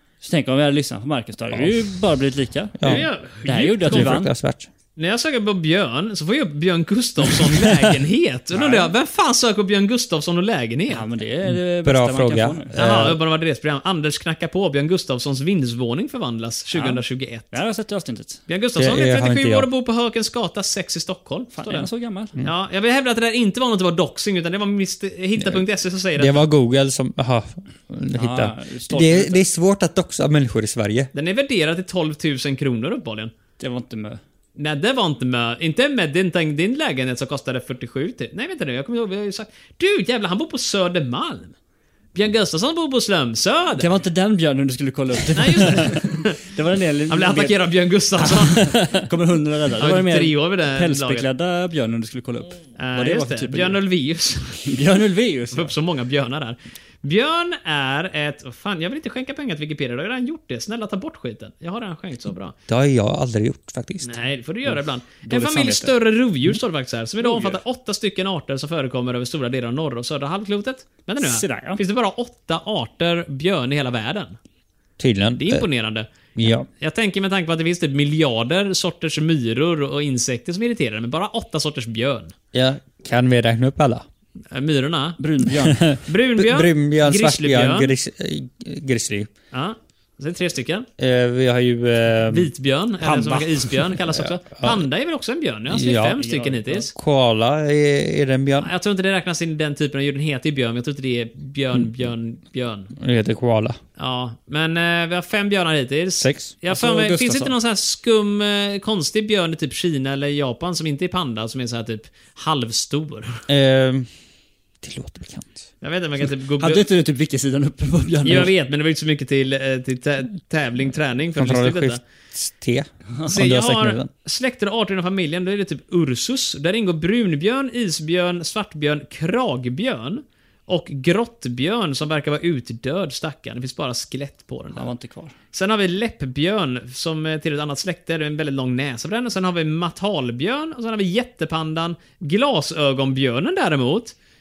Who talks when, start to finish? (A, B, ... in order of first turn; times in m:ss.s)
0:00.2-0:04.3 A
0:02.8-0:03.0 B
0:02.8-0:04.2 C
0:03.8-0:04.7 B
0:05.0-0:11.0 C
0:08.5-0:08.9 A
0:10.9-0:12.7 A
0:11.4-0:13.2 B
0:12.7-0:17.6 C
0:16.7-0:18.4 A
0:18.5-0:21.9 C
0:18.8-0:19.7 B
0:21.5-0:22.3 A
0:22.4-0:26.4 C
0:26.2-0:31.1 B
0:28.1-0:29.4 A
0:31.1-0:33.3 C
0:33.6-0:34.2 A
0:34.6-0:41.6 C
0:42.1-0:43.9 C
0:43.8-0:47.6 A
0:45.3-0:46.4 C
0:47.1-0:48.9 C
0:48.2-0:53.8 A
0:49.8-0:51.3 C
0:52.8-0:54.7 C
0:54.6-0:55.7 A
0:55.5-1:02.6 C
1:02.7-1:04.2 B
1:04.0-1:14.4 C
1:04.7-1:05.9 A
1:07.2-1:07.6 A
1:11.2-1:11.8 A
1:15.0-1:15.6 B
1:15.4-1:22.3 C
1:16.4-1:16.6 B
1:22.5-1:24.0 B
1:24.5-1:25.2 C
1:25.2-1:25.8 A
1:25.7-1:29.3 B
1:26.0-1:27.9 C
1:29.5-1:30.9 C
1:31.0-1:32.5 B
1:32.3-1:36.9 C
1:33.0-1:33.9 A
1:34.6-1:34.8 B
1:35.7-1:36.2 B
1:36.2-1:36.9 A
1:36.9-1:38.7 B
1:38.6-1:42.9 C
1:43.0-1:43.8 B
1:44.0-1:53.4 C
1:46.2-1:46.5 B
1:46.7-1:47.5 A
1:53.5-1:54.1 B
1:54.8-1:55.6 B
1:55.8-1:56.8 C
1:56.6-1:58.5 A
1:58.2-2:02.0 C
2:01.3-2:04.1 B
2:03.3-2:14.9 C
2:14.7-2:15.3 A
2:15.5-2:24.1 C